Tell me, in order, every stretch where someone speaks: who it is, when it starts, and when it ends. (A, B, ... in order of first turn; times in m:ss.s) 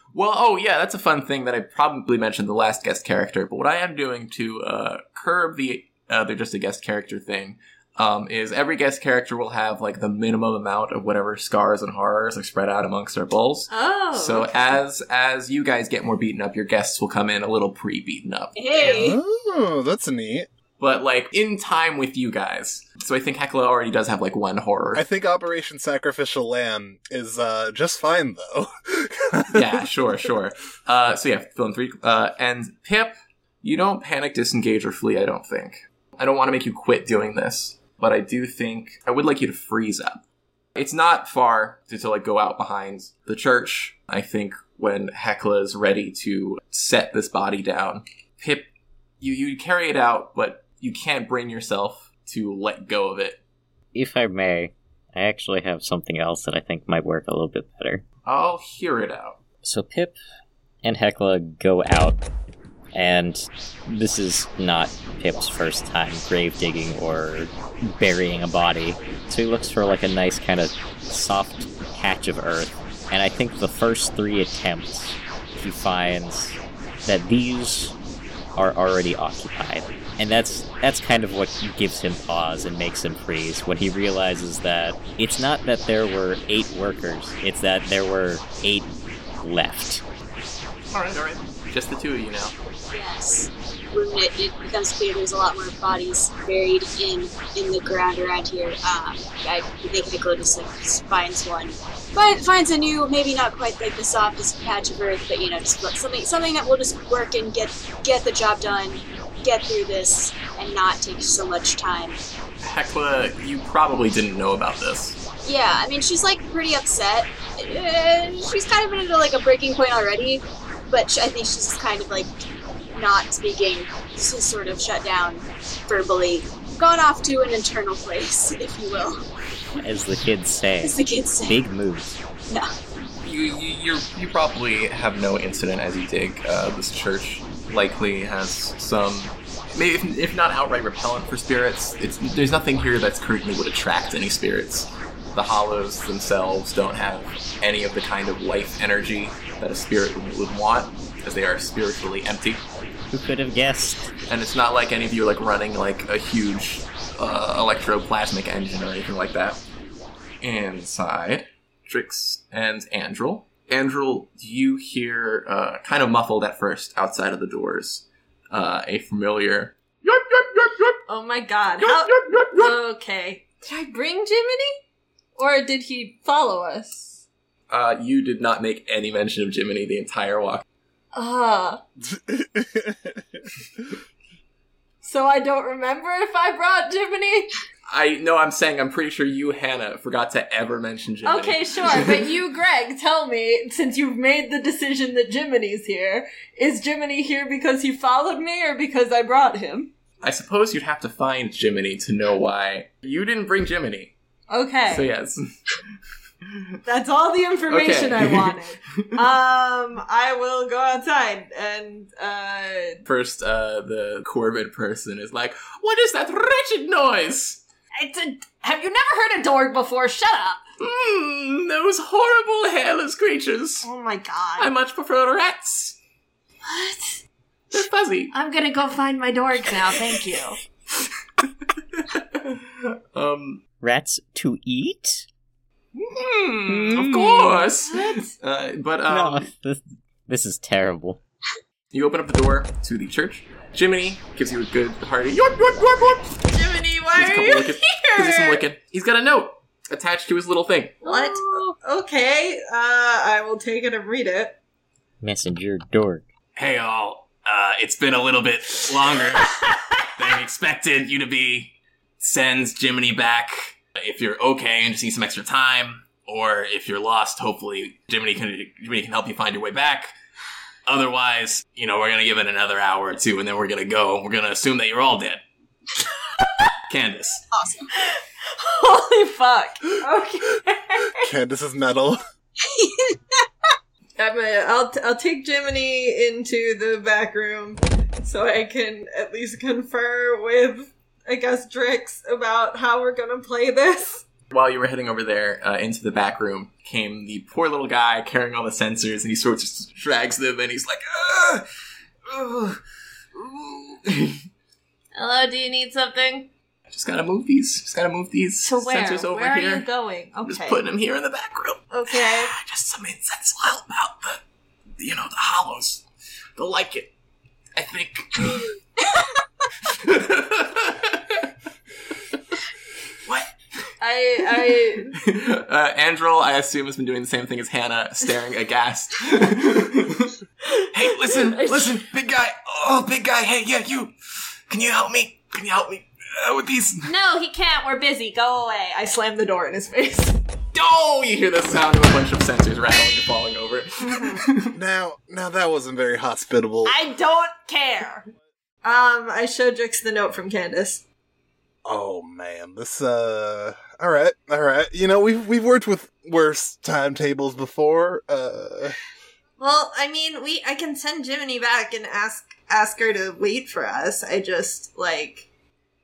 0:00.1-0:18.5 A
0:13.7-0:14.8 B
0:18.5-0:19.2 C
0:18.8-0:19.1 B
0:18.8-0:20.5 D
0:20.8-0:25.0 A
0:24.9-0:29.8 D
0:29.5-0:40.2 A
0:40.7-0:48.7 A
0:49.2-0:53.4 A
0:53.9-0:58.0 E
0:58.2-0:59.4 A
0:59.6-1:00.1 E
1:00.8-1:02.2 E
1:02.9-1:17.9 E
1:18.5-1:28.9 E
1:29.4-1:30.0 E
1:30.9-1:32.5 A
1:32.9-1:52.2 C
1:52.6-1:55.2 A
1:55.4-2:02.3 C
2:02.9-2:09.2 C
2:09.8-2:12.2 E
2:10.8-2:11.6 C
2:13.2-2:32.6 A
2:33.1-2:34.1 E
2:34.3-2:39.6 A
2:40.4-2:51.0 A
2:51.1-2:54.7 B
2:51.8-2:52.7 A
2:55.4-2:57.2 B
2:57.7-3:00.6 A
3:01.1-3:01.8 B
3:02.0-3:03.5 D
3:05.0-3:07.5 B
3:07.9-3:12.2 A
3:11.2-3:19.9 B
3:20.2-3:24.1 A
3:24.5-3:25.1 B
3:24.9-3:25.5 A
3:26.8-3:33.0 B
3:27.7-3:29.0 A
3:33.0-3:37.6 A
3:38.0-3:40.6 B
3:40.8-3:43.9 A
3:43.8-3:44.7 B
3:44.6-3:46.0 A
3:46.6-3:47.2 B
3:47.7-3:48.3 A
3:48.3-3:50.6 B
3:51.9-3:53.6 A
3:53.8-3:55.2 E
3:55.9-3:59.5 A
3:56.7-3:57.6 E
3:57.9-3:58.3 B
3:59.1-4:01.2 E
4:01.9-4:06.4 A
4:06.5-4:08.6 B
4:07.1-4:11.0 A
4:11.0-4:14.6 B
4:11.0-4:11.7 C
4:15.2-4:16.2 E
4:16.6-4:30.1 A
4:30.8-4:35.4 A
4:36.9-4:37.4 A
4:37.5-4:37.9 C
4:38.1-4:41.2 B
4:41.2-4:42.2 D
4:42.6-4:43.5 C
4:44.2-4:54.2 B
4:54.5-5:01.6 A
5:02.3-5:02.8 A
5:03.4-5:04.4 A
5:05.1-5:06.5 B
5:06.9-5:09.9 A
5:08.6-5:10.8 B
5:10.4-5:14.4 A
5:11.9-5:12.5 B
5:15.0-5:16.0 A
5:16.6-5:17.1 A
5:17.8-5:18.8 A
5:19.9-5:21.5 A
5:23.2-5:23.5 A
5:24.0-5:25.1 B
5:25.1-5:30.4 A
5:30.9-5:34.1 A
5:31.1-5:32.0 B
5:34.7-5:37.1 A
5:37.0-5:40.4 B
5:40.7-5:44.7 A
5:44.7-5:47.0 D
5:46.8-5:48.2 B
5:48.8-5:51.0 B
5:51.8-5:59.0 D
5:59.6-6:05.4 B